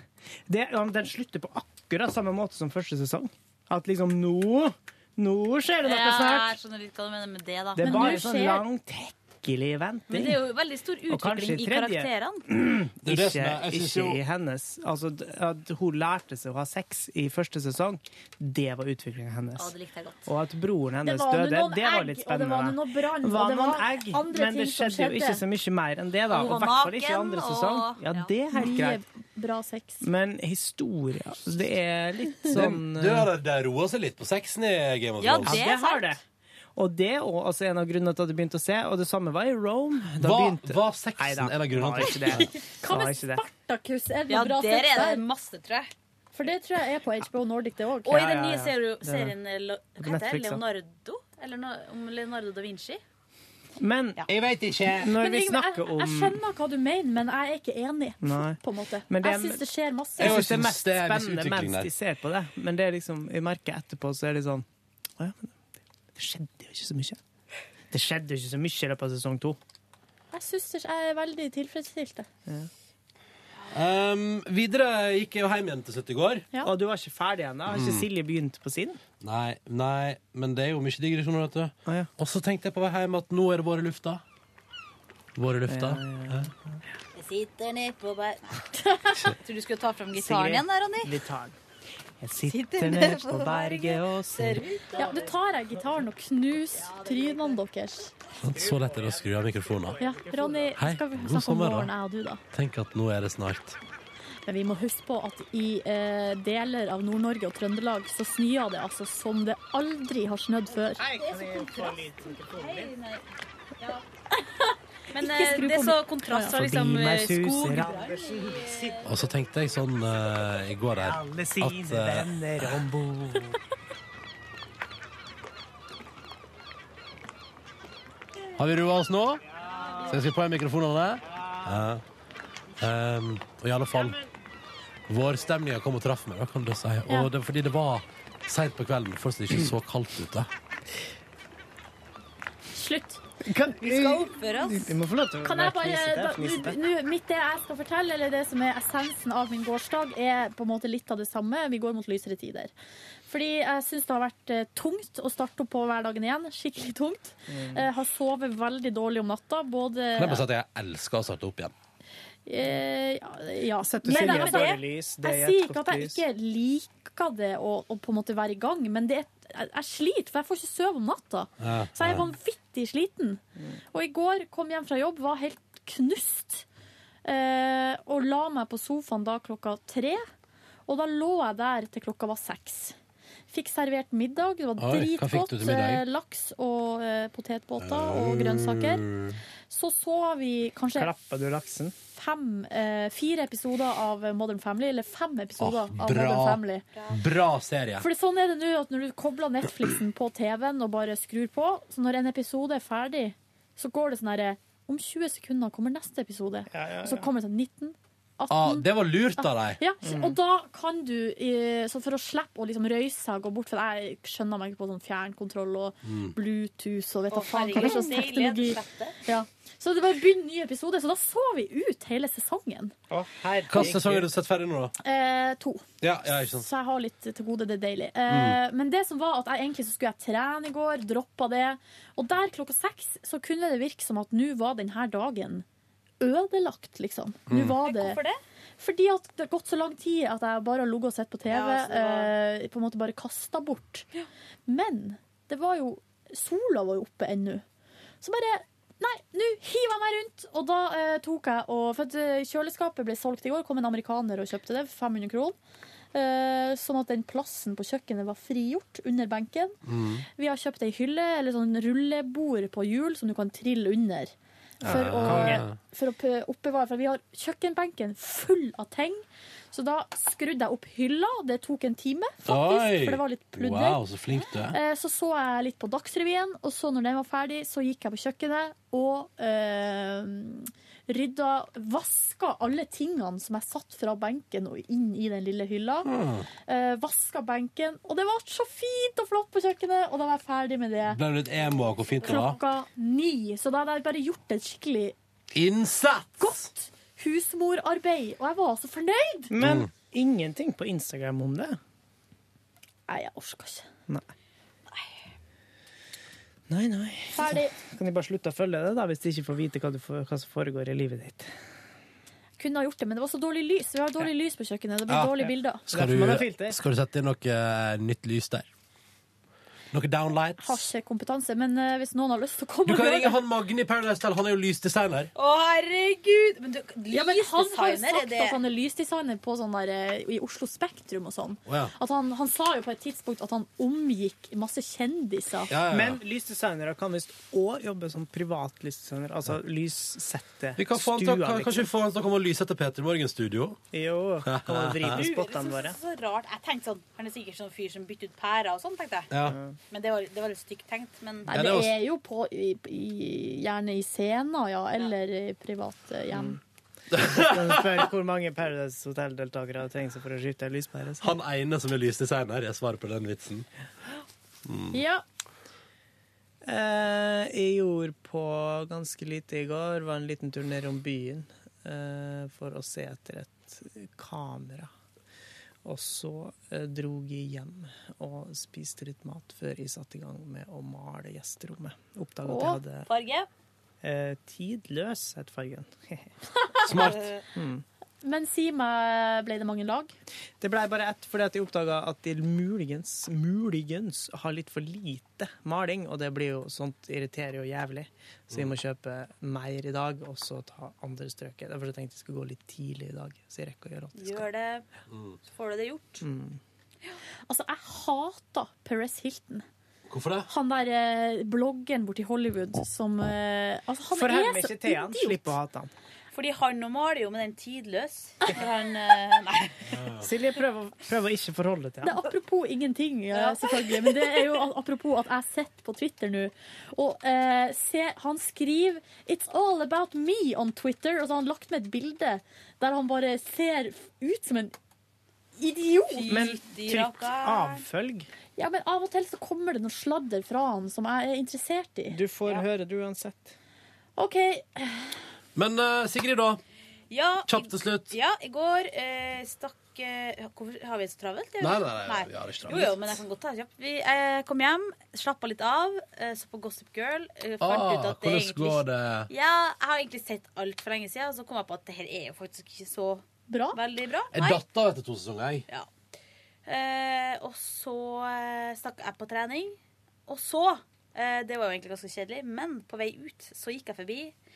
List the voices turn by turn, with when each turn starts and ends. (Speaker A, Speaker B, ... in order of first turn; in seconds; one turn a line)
Speaker A: 0.5-6.5
Speaker B: 5.8-8.2
Speaker A: 7.7-10.4
Speaker C: 7.8-8.6
Speaker B: 10.1-12.4
Speaker A: 11.1-19.7
Speaker D: 13.0-14.2
Speaker B: 19.5-20.3
Speaker A: 20.2-29.0
Speaker C: 21.0-25.4
Speaker B: 26.3-28.3
Speaker C: 28.5-30.0
Speaker A: 30.0-33.3
Speaker D: 32.5-35.6
Speaker B: 35.2-36.1
Speaker A: 35.4-36.2
Speaker A: 36.8-43.4
Speaker D: 40.2-42.5
Speaker C: 42.3-45.2
Speaker B: 44.3-45.9
Speaker C: 46.3-48.2
Speaker B: 48.0-53.0
Speaker A: 48.1-49.4
Speaker A: 50.0-50.6
Speaker A: 53.8-54.2
Speaker D: 54.3-55.1
Speaker A: 54.9-56.4
Speaker C: 55.1-60.4
Speaker A: 58.2-59.6
Speaker A: 60.2-64.7
Speaker D: 60.2-61.9
Speaker A: 65.2-65.6
Speaker A: 66.1-67.2
Speaker A: 67.9-69.6
Speaker C: 70.3-72.3
Speaker D: 73.7-76.5
Speaker A: 76.6-79.0
Speaker D: 77.7-78.0
Speaker D: 79.2-84.2
Speaker D: 85.3-86.5
Speaker A: 85.7-86.8
Speaker B: 87.1-88.7
Speaker C: 88.7-89.3
Speaker B: 89.2-91.2
Speaker A: 90.1-91.6
Speaker A: 92.2-95.3
Speaker B: 92.5-95.3
Speaker C: 95.0-98.1
Speaker B: 96.7-97.6
Speaker D: 98.4-100.0
Speaker A: 98.4-100.8
Speaker C: 100.0-102.4
Speaker D: 100.8-101.9
Speaker D: 102.5-103.8
Speaker C: 104.5-111.0
Speaker A: 111.0-112.9
Speaker B: 111.0-113.2
Speaker C: 114.3-116.5
Speaker B: 115.1-119.1
Speaker A: 116.5-119.2
Speaker D: 119.0-122.8
Speaker A: 121.0-123.6
Speaker D: 128.6-129.4
Speaker A: 129.6-130.2
Speaker B: 129.7-130.2
Speaker D: 130.1-132.0
Speaker A: 131.2-131.8
Speaker D: 132.8-134.2
Speaker A: 133.9-134.2
Speaker D: 135.1-140.5
Speaker C: 142.7-143.2
Speaker A: 143.4-146.8
Speaker B: 143.8-144.9
Speaker C: 145.4-152.7
Speaker C: 153.3-160.4
Speaker A: 157.5-157.8
Speaker D: 160.2-161.7
Speaker C: 162.4-176.7
Speaker A: 163.8-166.2
Speaker B: 164.1-164.8
Speaker D: 171.6-172.2
Speaker C: 177.2-180.3
Speaker C: 180.9-183.0
Speaker C: 183.5-189.1
Speaker D: 184.8-186.0
Speaker D: 187.8-189.4
Speaker C: 189.7-191.1
Speaker A: 190.9-191.9
Speaker C: 192.1-196.8
Speaker D: 195.6-198.1
Speaker B: 196.9-197.2
Speaker C: 198.0-222.9
Speaker A: 206.7-207.3
Speaker D: 208.5-209.8
Speaker A: 210.0-210.4
Speaker D: 216.1-216.3
Speaker B: 217.3-219.2
Speaker A: 223.1-224.3
Speaker D: 223.7-224.9
Speaker C: 225.0-225.9
Speaker D: 226.0-226.7
Speaker C: 226.5-235.6
Speaker D: 228.3-228.6
Speaker C: 236.2-238.2
Speaker D: 237.5-237.8
Speaker B: 237.8-238.4
Speaker C: 238.8-244.1
Speaker B: 241.5-242.3
Speaker C: 244.7-247.6
Speaker C: 248.2-255.6
Speaker C: 256.1-264.3
Speaker D: 259.9-260.2
Speaker A: 264.8-265.6
Speaker C: 264.8-274.0
Speaker D: 264.9-265.8
Speaker D: 272.4-274.8
Speaker C: 274.7-291.2
Speaker D: 286.1-286.5
Speaker D: 291.1-292.6
Speaker B: 291.6-292.6
Speaker C: 292.2-295.1
Speaker D: 295.5-296.6
Speaker C: 296.4-299.5
Speaker A: 299.5-301.8
Speaker D: 299.6-299.9
Speaker C: 303.1-303.9
Speaker A: 306.7-311.5
Speaker C: 307.3-307.8
Speaker C: 312.6-315.8
Speaker D: 315.1-318.6
Speaker A: 315.9-316.8
Speaker D: 319.9-320.8
Speaker C: 320.6-323.4
Speaker D: 322.9-325.3
Speaker B: 325.4-328.6
Speaker C: 327.1-335.7
Speaker D: 331.7-331.9
Speaker D: 335.7-336.2
Speaker A: 335.9-341.9
Speaker D: 340.8-343.8
Speaker A: 343.9-346.0
Speaker D: 344.4-345.2
Speaker B: 345.1-349.3
Speaker D: 349.3-349.6
Speaker A: 349.4-349.8
Speaker B: 349.9-351.6
Speaker C: 351.5-356.6
Speaker D: 351.5-351.9
Speaker D: 357.1-357.9
Speaker A: 357.1-361.4
Speaker D: 361.2-363.7
Speaker D: 364.6-365.0
Speaker C: 364.9-365.2
Speaker A: 366.6-374.9
Speaker A: 375.8-383.1
Speaker C: 382.4-382.8
Speaker B: 383.1-383.5
Speaker A: 384.0-386.3
Speaker D: 386.8-387.3
Speaker B: 386.8-387.4
Speaker A: 387.5-387.8
Speaker C: 388.2-390.1
Speaker A: 390.6-404.5
Speaker B: 404.1-404.9
Speaker D: 405.1-405.4
Speaker B: 405.4-406.2
Speaker A: 406.2-406.6
Speaker C: 407.5-409.6
Speaker D: 410.1-410.5
Speaker C: 410.5-415.6
Speaker A: 414.1-415.9
Speaker B: 416.3-420.0
Speaker D: 419.8-420.3
Speaker A: 420.2-422.2
Speaker C: 422.0-434.7
Speaker B: 423.3-424.5
Speaker C: 435.6-436.4
Speaker B: 436.1-437.8
Speaker A: 436.3-438.3
Speaker C: 438.6-442.2
Speaker A: 442.1-443.5
Speaker C: 444.1-445.2
Speaker D: 445.5-446.6
Speaker B: 447.1-464.6
Speaker D: 447.5-448.1
Speaker D: 451.6-453.2
Speaker D: 457.6-459.3
Speaker C: 463.5-463.8
Speaker D: 464.3-465.6
Speaker B: 466.6-469.8
Speaker B: 470.3-474.3